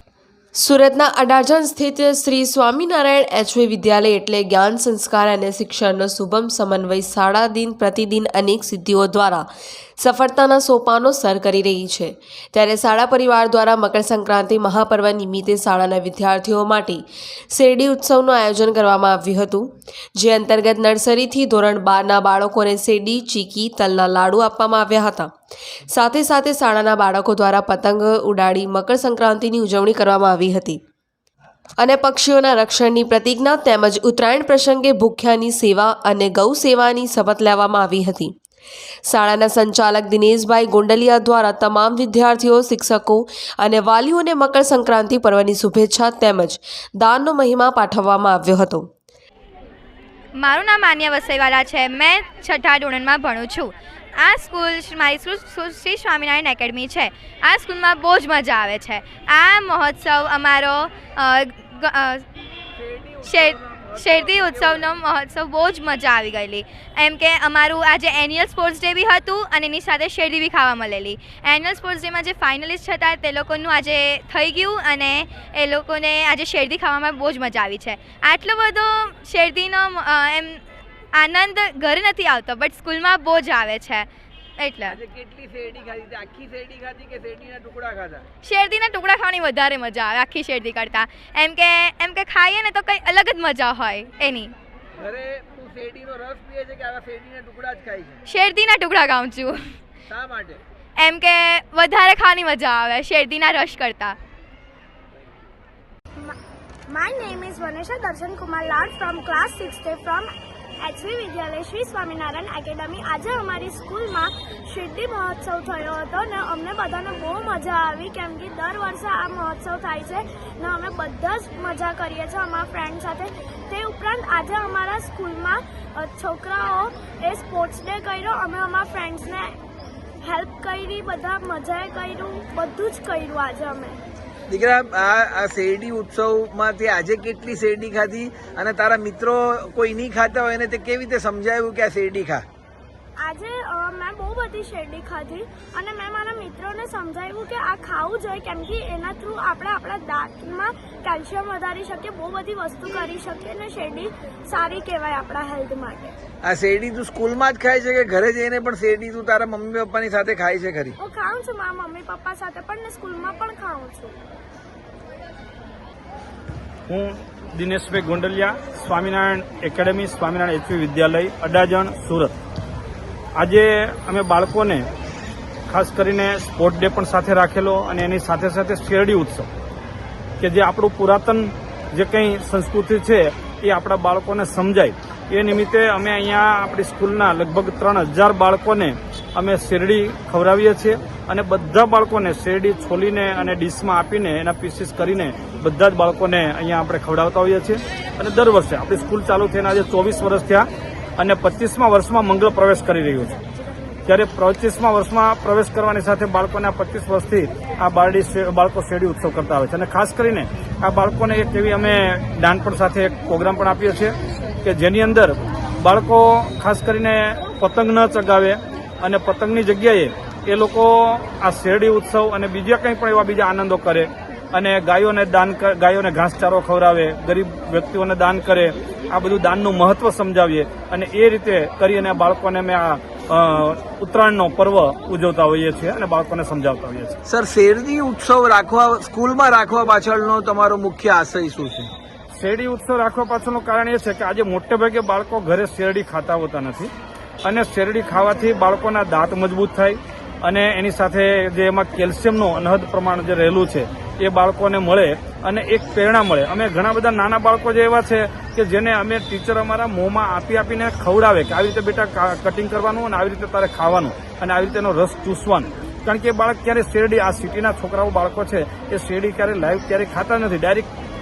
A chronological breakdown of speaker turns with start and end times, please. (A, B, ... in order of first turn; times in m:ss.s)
0:00.6-0:09.5 A
0:10.0-0:25.3 A
0:25.9-0:30.8 A
0:31.8-0:38.3 A
0:39.1-0:48.9 A
0:50.4-1:02.2 B
1:02.8-1:03.1 C
1:03.2-1:20.6 B
1:21.2-1:24.1 B
1:24.6-1:25.0 B
1:24.9-1:28.2 C
1:28.4-1:34.5 B
1:35.0-1:38.2 C
1:38.3-1:39.6 B
1:40.1-1:40.6 C
1:41.0-1:44.2 B
1:46.9-1:50.3 D
1:50.8-2:09.5 D
2:10.2-2:14.0 D
2:14.5-2:22.4 C
2:23.2-2:36.1 D
2:36.4-2:41.0 C
2:41.0-2:44.1 D
2:46.9-2:52.4 E
2:53.4-2:54.9 E
2:55.7-2:59.5 E
3:00.4-3:23.4 E
3:24.1-3:57.2 E
3:57.3-4:01.9 C
4:02.3-4:06.9 E
4:07.4-4:30.9 E